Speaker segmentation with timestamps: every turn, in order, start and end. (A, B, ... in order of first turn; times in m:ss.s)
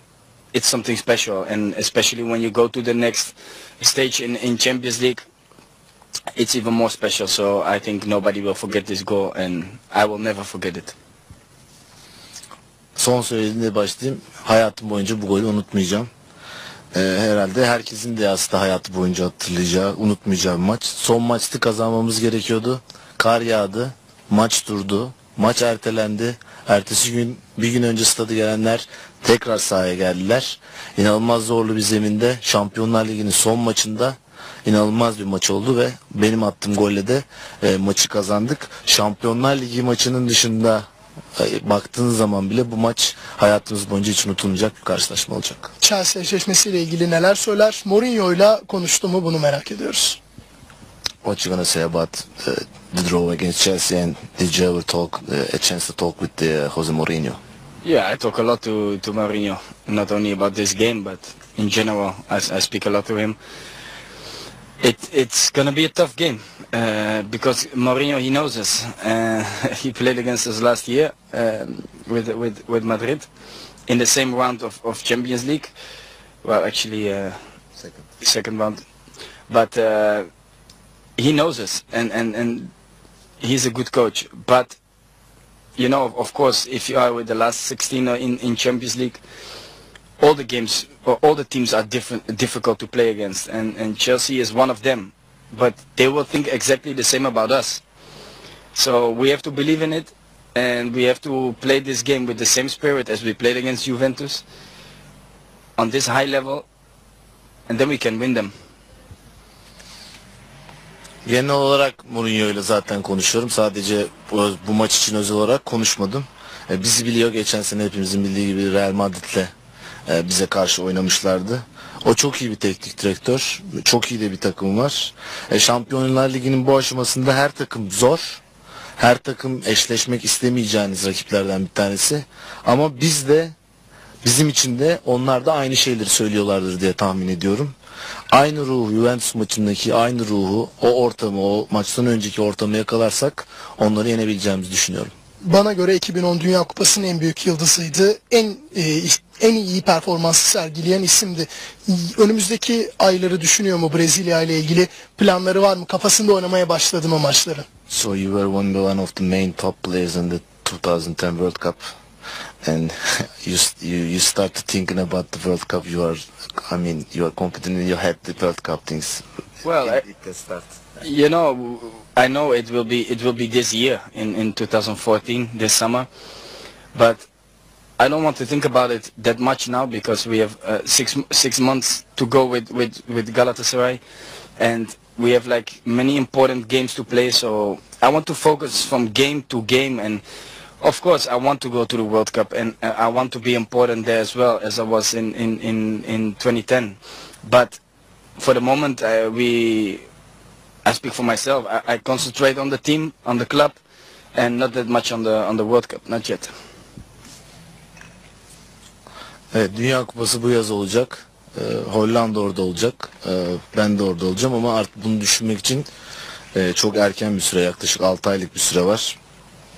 0:00.5-0:05.2 A
0:06.3-0:10.9 A
0:13.0-0:16.1 B
0:16.9-0:45.7 B
0:45.8-0:50.2 C
0:51.2-0:57.4 B
0:57.8-1:03.4 A
1:04.8-1:13.3 A
1:13.9-1:15.7 A
1:16.4-1:17.4 A
1:18.2-1:18.8 A
1:19.5-1:20.3 A
1:21.2-1:22.7 A
1:23.4-1:24.8 A
1:25.8-1:29.2 A
1:30.2-1:37.8 A
1:38.7-1:44.4 A
1:45.8-1:46.6 A
1:47.7-1:48.5 A
1:51.2-1:59.5 B
2:00.1-2:08.4 B
2:09.0-2:13.5 B
2:14.2-2:17.7 B
2:18.3-2:25.1 B
2:25.4-2:37.6 C
2:37.9-2:41.9 B
2:42.6-2:49.2 B
2:49.6-2:50.0 A
2:49.8-2:50.7 B
2:51.0-2:56.1 A
2:56.9-2:57.3 A
2:58.0-3:04.0 A
3:04.6-3:10.2 A
3:10.8-3:17.8 A
3:18.4-3:20.0 A
3:20.8-3:23.8 A
3:24.3-3:26.5 A
3:29.5-3:35.9 B
3:36.5-3:39.2 B